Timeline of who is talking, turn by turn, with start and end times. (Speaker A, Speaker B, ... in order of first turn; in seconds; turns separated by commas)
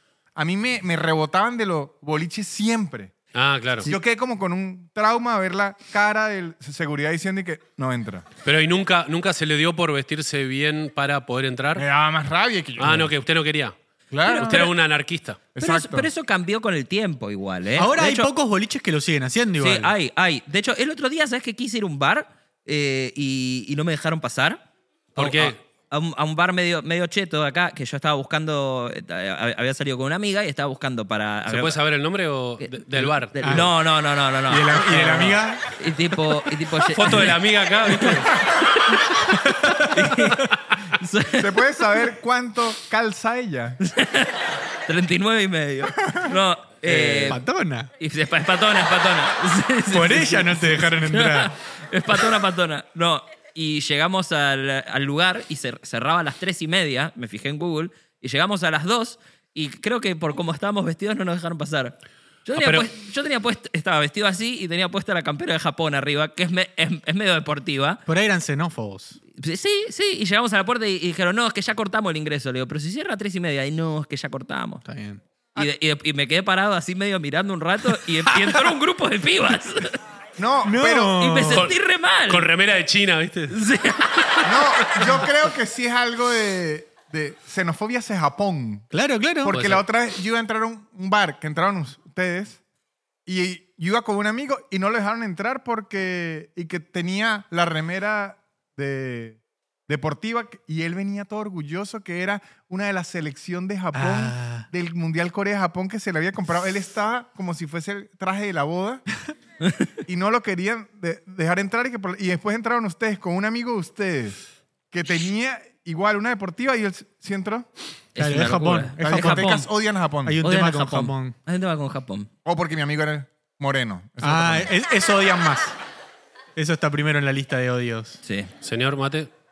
Speaker A: 0.4-3.1, Speaker B: 3.3-3.9, Speaker A: 3.8-8.2, Speaker B: 8.4-11.8, Speaker A: 11.8-13.1, Speaker B: 12.8-13.7, Speaker A: 14.1-14.7, Speaker C: 14.2-14.7, Speaker B: 14.3-15.4, Speaker A: 15.6-16.1, Speaker C: 15.6-18.3, Speaker D: 17.8-19.9, Speaker C: 19.6-24.6, Speaker B: 25.1-25.6, Speaker C: 25.2-31.8, Speaker B: 31.4-33.6, Speaker C: 32.6-38.3, Speaker D: 33.4-33.7, Speaker D: 34.5-35.6, Speaker B: 36.7-38.4, Speaker D: 39.3-40.4, Speaker C: 39.8-41.6, Speaker A: 41.4-43.8, Speaker C: 43.8-47.4, Speaker A: 46.0-46.3, Speaker B: 46.9-47.3, Speaker D: 47.3-47.9, Speaker C: 48.0-68.0, Speaker D: 49.9-51.5, Speaker B: 62.6-62.9, Speaker D: 68.1-69.2, Speaker C: 69.3-74.8, Speaker D: 74.8-75.2, Speaker C: 75.6-80.0, Speaker A: 80.4-81.2, Speaker D: 80.6-81.7, Speaker C: 81.2-82.5, Speaker B: 81.5-83.6, Speaker C: 83.5-85.1, Speaker A: 84.4-88.9, Speaker D: 88.9-89.6, Speaker A: 89.4-92.6, Speaker B: 89.5-89.8, Speaker A: 93.2-109.0, Speaker D: 103.9-104.7, Speaker C: 109.6-109.9, Speaker A: 110.1-114.4, Speaker A: 114.9-117.7, Speaker C: 118.1-119.7, Speaker D: 118.2-119.7, Speaker A: 119.0-120.4, Speaker D: 120.2-121.4, Speaker C: 120.4-122.3, Speaker A: 122.4-124.7, Speaker D: 124.2-125.7, Speaker D: 126.6-128.2, Speaker C: 128.2-128.5, Speaker B: 128.6-129.3